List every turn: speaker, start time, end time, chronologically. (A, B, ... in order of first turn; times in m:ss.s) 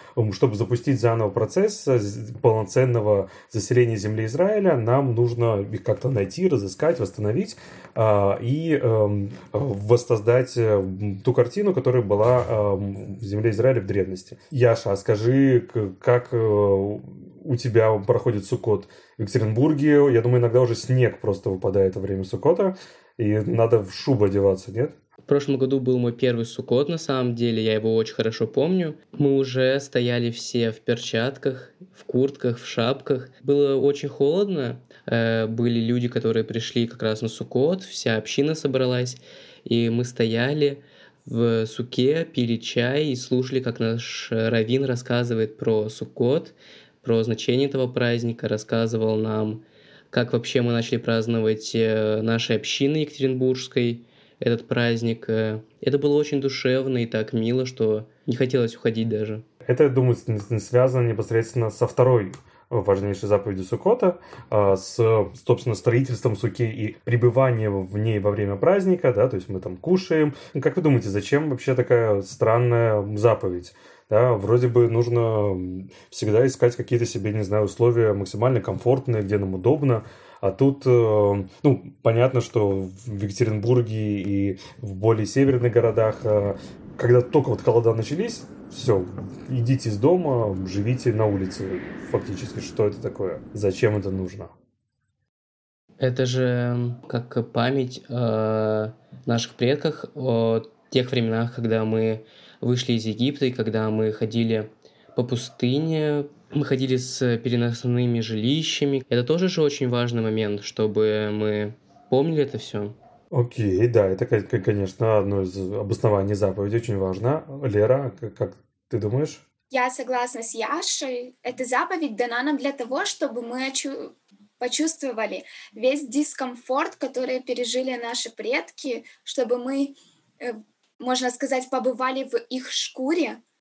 0:00.2-0:24.9 A
0:25.2-0:59.4 B
0:59.6-1:34.5 A
1:36.0-1:52.9 B
1:53.3-1:59.4 A
1:59.7-2:13.4 C